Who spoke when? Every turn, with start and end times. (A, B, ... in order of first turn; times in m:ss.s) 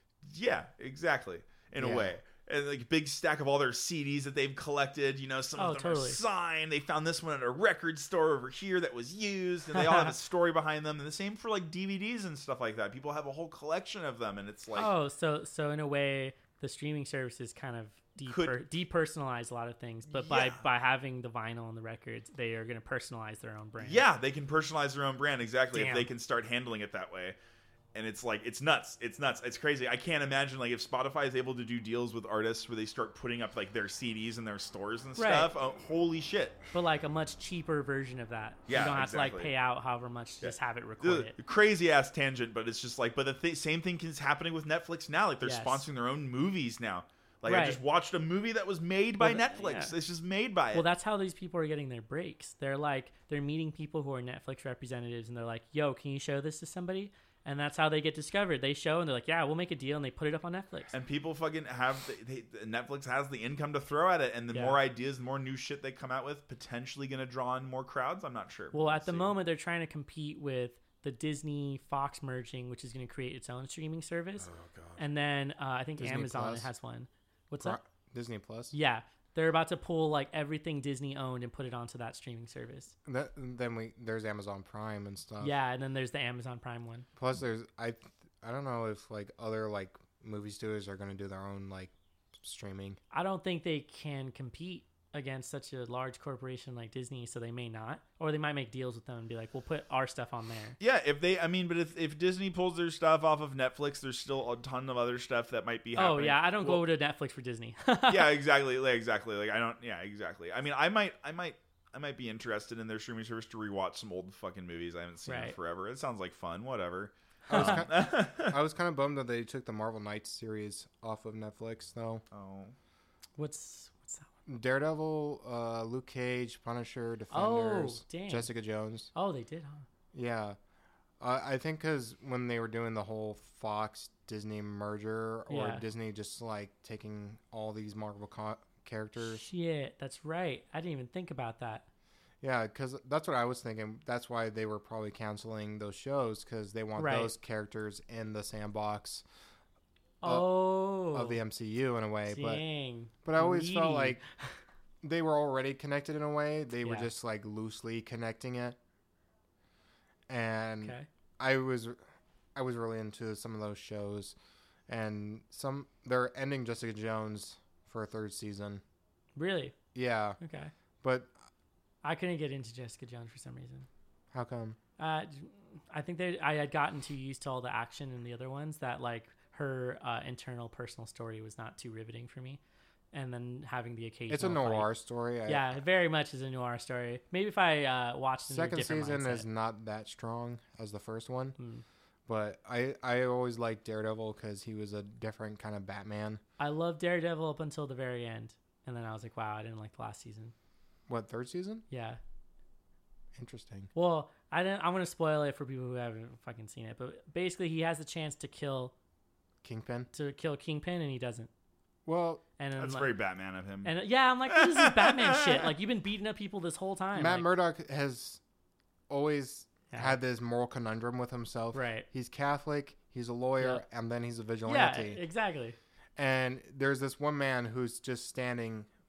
0:00.2-0:14.9 A
0:01.8-0:02.1 B
0:05.6-0:06.2 C
0:09.7-0:10.1 C
0:14.8-0:24.0 C
0:18.2-0:18.6 A
0:20.1-0:20.6 A
0:23.8-0:27.4 A
0:25.7-0:26.1 C
0:27.9-0:36.6 A
0:35.2-0:35.5 C
0:36.7-0:41.3 C
0:38.7-0:39.5 A
0:40.4-0:50.8 A
0:45.4-0:45.8 C
0:47.5-0:47.8 C
0:49.2-0:49.9 C
0:50.7-1:01.0 C
1:00.9-1:09.3 A
1:04.5-1:04.8 C
1:08.7-1:17.8 C
1:14.4-1:15.0 A
1:16.0-1:16.7 B
1:17.6-1:18.7 B
1:18.7-1:22.9 C
1:23.0-1:25.5 B
1:25.4-1:27.1 C
1:27.2-1:33.0 B
1:33.1-1:40.8 C
1:40.8-1:46.8 A
1:46.0-1:48.3 C
1:48.1-1:58.6 A
1:55.3-1:55.6 C
1:57.5-2:02.2 B
1:57.5-1:57.8 C
2:02.3-2:02.8 A
2:03.4-2:04.3 C
2:04.5-2:09.1 B
2:07.3-2:08.5 C
2:09.1-2:09.9 C
2:10.1-2:10.6 B
2:11.2-2:19.4 B
2:15.5-2:15.8 C
2:19.2-2:21.8 C
2:22.4-2:29.2 B
2:27.0-2:27.3 C
2:30.2-2:31.4 C
2:30.2-2:32.6 B
2:32.2-2:34.5 C
2:33.2-2:34.2 B
2:35.0-2:38.8 B
2:36.8-2:37.1 C
2:40.3-2:42.0 B
2:42.5-2:44.3 B
2:44.9-2:48.8 B
2:49.4-2:49.7 C
2:49.9-2:50.4 B
2:50.4-2:50.7 C
2:51.0-2:51.3 B
2:52.0-2:53.9 C
2:54.3-2:54.8 B
2:55.0-3:02.6 C
3:03.1-3:04.9 C
3:04.3-3:05.8 B
3:05.4-3:09.4 C
3:08.5-3:11.6 B
3:11.6-3:11.8 C
3:12.3-3:16.4 B
3:16.6-3:20.5 C
3:21.1-3:21.8 B
3:21.9-3:22.2 C
3:23.4-3:23.9 B
3:23.9-3:28.9 C
3:29.6-3:30.1 B
3:30.1-3:31.5 C
3:32.0-3:32.4 B
3:32.6-3:33.1 C
3:32.8-3:33.9 A
3:33.8-3:37.5 C
3:34.5-3:35.7 A
3:37.1-3:38.4 B
3:39.1-3:45.2 B
3:39.9-3:40.2 C
3:41.7-3:42.0 C
3:44.6-3:45.8 C
3:46.2-3:48.9 B